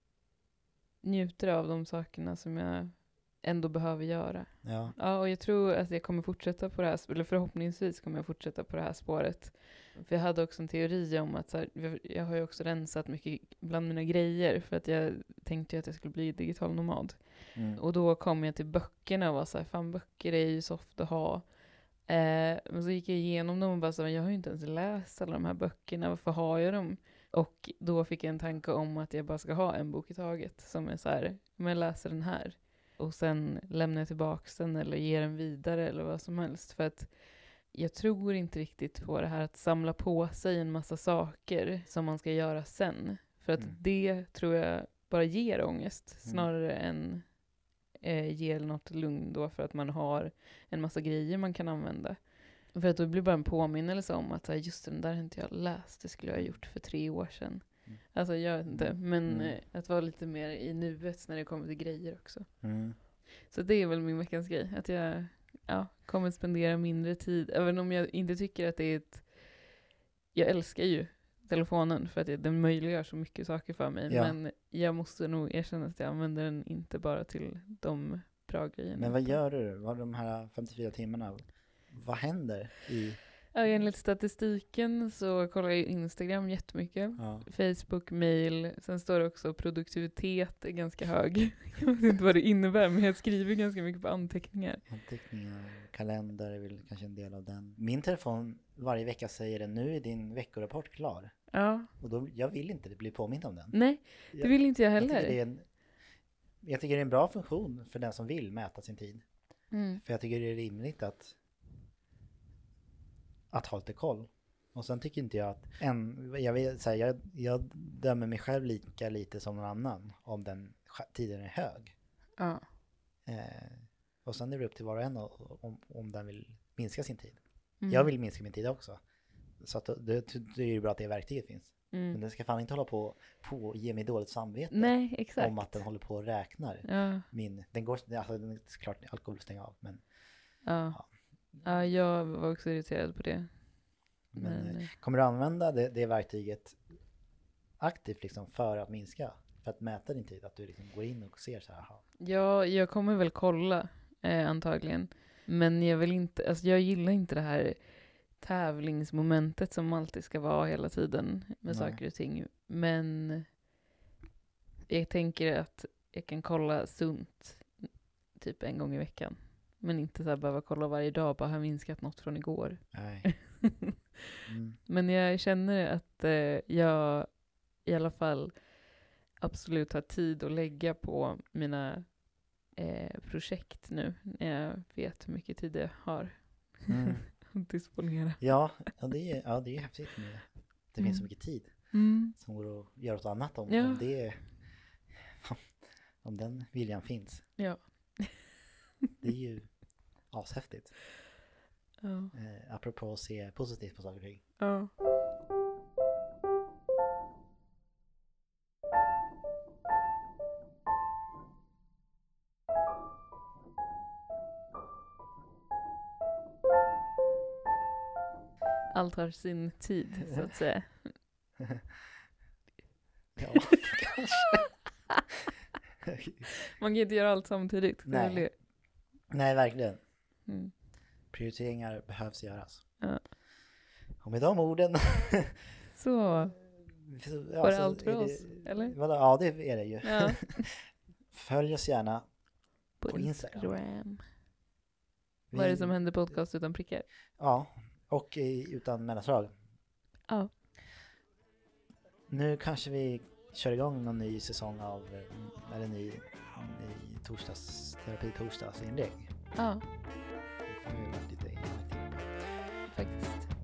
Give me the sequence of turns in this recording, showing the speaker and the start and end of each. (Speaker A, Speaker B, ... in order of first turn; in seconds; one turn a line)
Speaker A: 1.0-69.8
Speaker B: 4.6-4.9
Speaker B: 17.5-17.8
Speaker B: 46.2-46.5
Speaker B: 56.3-56.6
Speaker B: 57.9-58.1
Speaker B: 58.6-59.6
Speaker B: 62.6-63.0
Speaker A: 70.3-79.4
Speaker B: 74.1-74.4
Speaker B: 79.0-83.2
Speaker A: 83.5-94.9
Speaker B: 87.2-87.5
Speaker B: 94.9-105.8
Speaker A: 101.5-101.9
Speaker A: 103.7-105.4
Speaker B: 106.6-109.3
Speaker A: 109.7-110.0
Speaker B: 110.0-111.4
Speaker B: 113.5-121.9
Speaker A: 122.4-122.6
Speaker B: 123.3-129.0
Speaker A: 127.8-128.1
Speaker B: 129.6-141.6
Speaker A: 131.9-132.2
Speaker A: 134.7-135.9
Speaker A: 136.8-137.3
Speaker A: 140.6-144.9
Speaker B: 144.3-146.8
Speaker B: 147.8-152.1
Speaker A: 152.2-163.5
Speaker B: 161.7-162.0
Speaker A: 164.9-173.9
Speaker B: 172.9-173.5
Speaker B: 174.4-174.8
Speaker A: 174.9-188.9
Speaker B: 186.9-187.5
Speaker B: 188.4-195.6
Speaker A: 191.0-192.3
Speaker A: 193.7-194.1
Speaker B: 196.2-197.6
Speaker A: 197.6-198.6
Speaker B: 199.2-201.0
Speaker A: 202.0-202.3
Speaker B: 202.3-204.5
Speaker A: 204.6-204.9
Speaker A: 218.9-221.2
Speaker B: 223.4-224.7
Speaker B: 226.2-226.5
Speaker A: 226.8-228.5
Speaker B: 228.1-228.7
Speaker B: 229.3-230.1
Speaker A: 230.4-230.7
Speaker B: 231.3-233.3
Speaker B: 234.2-235.6
Speaker A: 235.9-236.6
Speaker B: 236.7-242.4
Speaker A: 237.6-239.0
Speaker A: 240.0-240.7
Speaker B: 243.0-243.8
Speaker A: 243.0-244.2
Speaker B: 245.5-246.0
Speaker A: 245.5-247.1
Speaker B: 247.4-249.5
Speaker A: 250.3-250.5
Speaker B: 252.3-259.3
Speaker A: 259.6-259.9
Speaker B: 260.7-262.8
Speaker A: 262.9-263.5